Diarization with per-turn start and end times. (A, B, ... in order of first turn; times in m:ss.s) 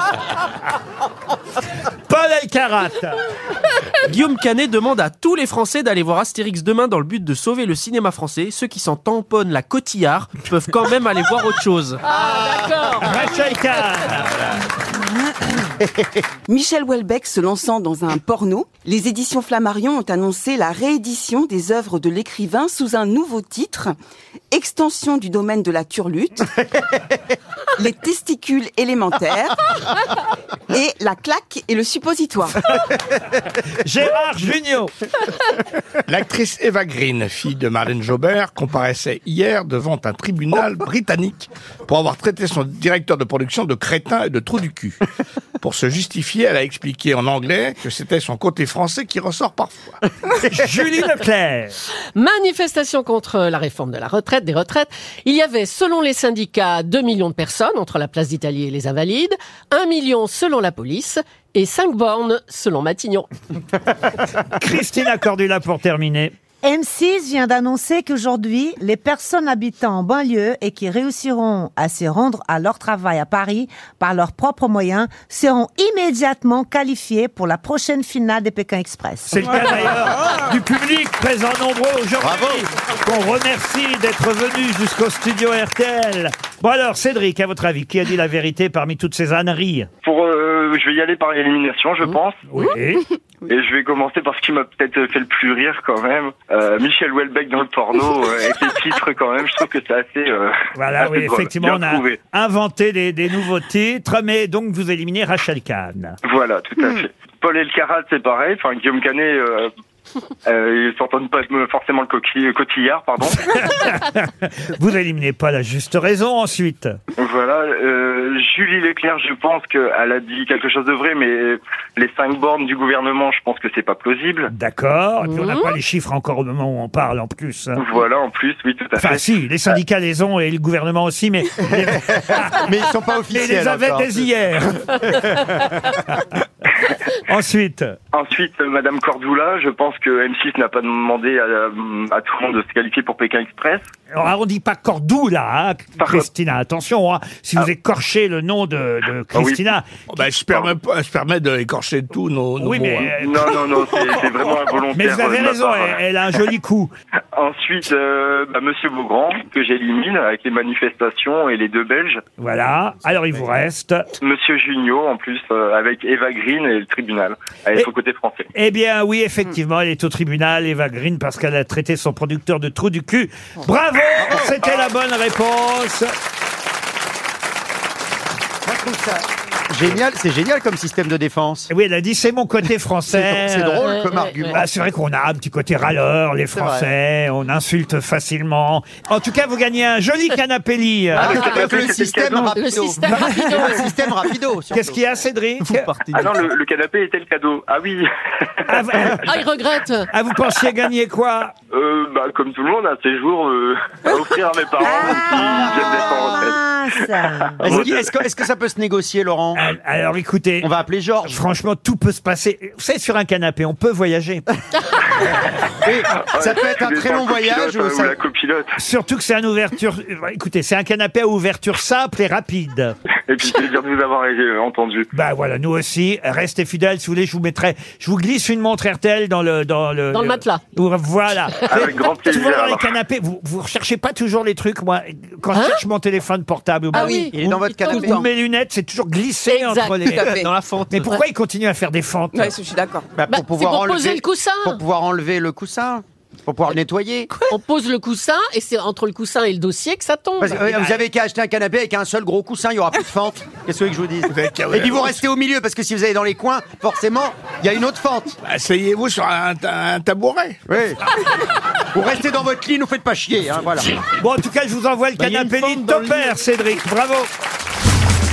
0:02.1-0:03.2 A
0:04.0-0:12.0 B
0:12.0-0:14.1 C
0:12.1-0:13.0 D
0:13.0-0:14.4 A
0:15.8-0:16.0 D
0:16.5-0:23.9 E
0:24.5-0:26.5 E
0:27.8-0:29.6 E
0:30.7-0:32.6 E
0:33.8-0:34.9 A
0:36.1-0:45.0 F
0:45.6-0:50.0 F
0:50.5-0:51.7 A
0:52.1-1:03.3 C
1:04.5-1:06.3 A
1:06.6-1:19.7 G
1:19.3-1:29.9 A
1:22.2-1:22.7 D
1:30.0-1:32.4 H
1:32.5-1:33.0 A
1:33.5-1:42.2 H
1:40.7-1:46.2 A
1:46.2-1:49.7 H
1:50.4-1:53.7 H
1:53.5-1:57.0 A
1:57.2-2:04.5 H
2:04.5-2:07.8 A
2:05.2-2:05.7 C
2:07.8-2:09.2 H
2:09.0-2:12.6 A
2:11.7-2:14.3 D
2:13.3-2:15.0 A
2:14.9-2:15.7 D
2:17.2-2:18.0 A
2:18.1-2:23.8 H
2:24.1-2:29.9 A
2:26.0-2:26.3 H
2:29.3-2:29.6 H
2:30.1-2:33.2 F
2:32.6-2:33.5 A
2:33.1-2:36.0 H
2:33.8-2:34.3 F
2:34.9-2:36.9 A
2:37.4-2:42.2 H
2:42.4-2:44.1 A
2:44.2-2:48.5 H
2:48.5-2:56.1 A
2:54.2-2:54.7 D
2:58.6-3:01.7 D
3:01.7-3:03.8 A
3:03.1-3:04.6 D
3:03.8-3:04.6 C
3:04.5-3:11.5 A
3:06.5-3:06.9 D
3:11.2-3:14.9 D
3:11.2-3:12.5 H
3:12.3-3:14.0 C
3:14.7-3:15.9 A
3:15.6-3:16.5 B
3:16.1-3:18.1 H
3:18.7-3:19.3 A
3:19.2-3:20.1 C
3:20.1-3:21.5 A
3:21.7-3:26.6 H
3:24.8-3:27.6 G
3:27.6-3:28.1 H
3:27.6-3:29.6 D
3:29.5-3:30.7 A
3:30.6-3:31.4 D
3:31.2-3:34.4 A
3:35.8-3:38.1 D
3:36.3-3:38.7 H
3:38.8-3:42.9 A
3:43.3-3:45.1 H
3:45.1-4:00.4 A
3:50.1-3:50.6 C
3:51.7-3:53.0 H
3:55.5-3:55.8 C
3:56.9-3:58.2 C
3:56.9-3:57.3 E
3:57.3-3:58.2 D
3:57.9-3:58.2 E
3:59.5-4:00.2 C
4:00.1-4:00.5 E
4:00.2-4:01.2 B
4:00.9-4:02.5 A
4:02.3-4:03.1 E
4:03.2-4:07.3 D
4:03.3-4:04.8 C
4:07.4-4:11.0 C
4:10.4-4:18.4 D
4:14.3-4:15.2 F
4:18.4-4:20.6 F
4:20.7-4:21.0 D
4:21.9-4:23.9 D
4:24.2-4:27.3 A
4:25.2-4:26.3 B